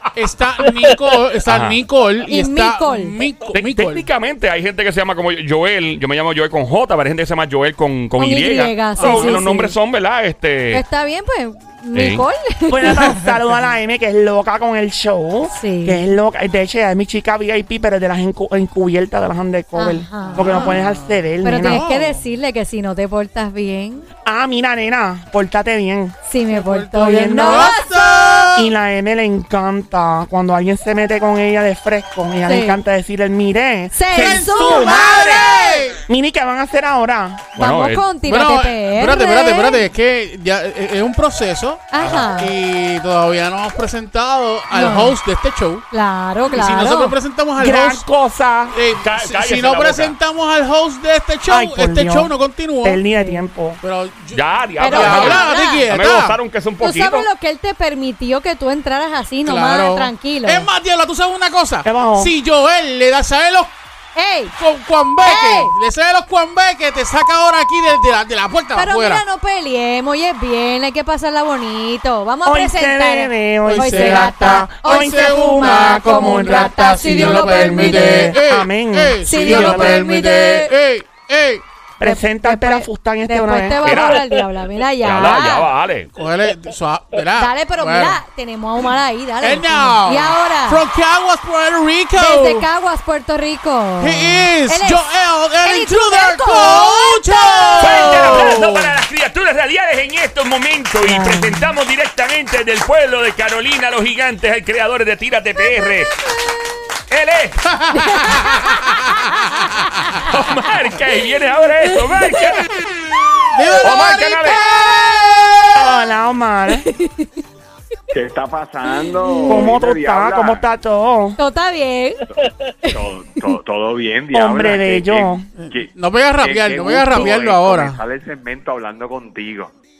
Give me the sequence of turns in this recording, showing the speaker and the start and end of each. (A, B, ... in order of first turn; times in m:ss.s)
0:00.1-0:04.1 A
0:01.4-0:01.8 B
0:02.3-0:03.2 C
0:03.5-0:10.8 B
0:08.2-0:09.8 C
0:09.0-0:09.4 A
0:10.7-0:13.2 C
0:11.9-0:12.2 B
0:12.7-0:21.8 D
0:15.5-0:16.0 C
0:19.7-0:20.8 C
0:20.2-0:22.2 A
0:21.4-0:24.1 C
0:24.2-0:26.2 D
0:26.3-0:28.1 C
0:26.5-0:28.7 A
0:27.0-0:27.8 D
0:28.5-0:35.5 D
0:32.5-0:32.8 C
0:33.9-0:35.7 C
0:34.6-0:36.0 A
0:36.0-0:37.5 D
0:37.5-0:38.1 B
0:37.6-0:39.8 C
0:38.2-0:45.8 A
0:41.9-0:42.5 C
0:44.7-0:45.2 C
0:45.9-0:47.2 C
0:46.5-0:48.0 A
0:47.6-0:48.8 D
0:48.7-0:53.0 A
0:49.0-0:50.1 E
0:51.5-0:53.8 D
0:53.1-0:53.4 C
0:53.8-0:56.4 A
0:54.3-0:57.3 B
0:54.8-0:55.9 C
0:56.8-1:00.7 C
0:59.4-1:03.7 A
1:01.8-1:02.3 D
1:04.1-1:04.5 C
1:04.6-1:09.2 A
1:05.2-1:05.7 C
1:08.7-1:18.4 C
1:12.4-1:20.0 D
1:13.6-1:21.6 A
1:19.2-1:20.7 C
1:22.0-1:24.0 D
1:22.0-1:25.7 C
1:23.8-1:24.2 B
1:25.0-1:26.1 B
1:26.1-1:28.2 A
1:27.3-1:30.8 C
1:29.4-1:32.7 A
1:32.1-1:35.1 C
1:34.0-1:38.9 A
1:35.6-1:38.6 C
1:37.8-1:46.2 B
1:41.0-1:41.7 C
1:47.1-1:47.7 B
1:47.7-1:50.2 A
1:47.9-1:49.5 C
1:50.2-1:52.7 B
1:53.5-1:55.8 A
1:53.8-1:54.6 B
1:55.7-1:56.9 D
1:56.8-1:57.3 C
1:58.1-2:00.7 E
1:59.1-1:59.7 C
1:59.5-2:01.4 D
2:01.4-2:02.3 C
2:02.3-2:09.7 E
2:04.3-2:05.5 D
2:05.6-2:08.0 A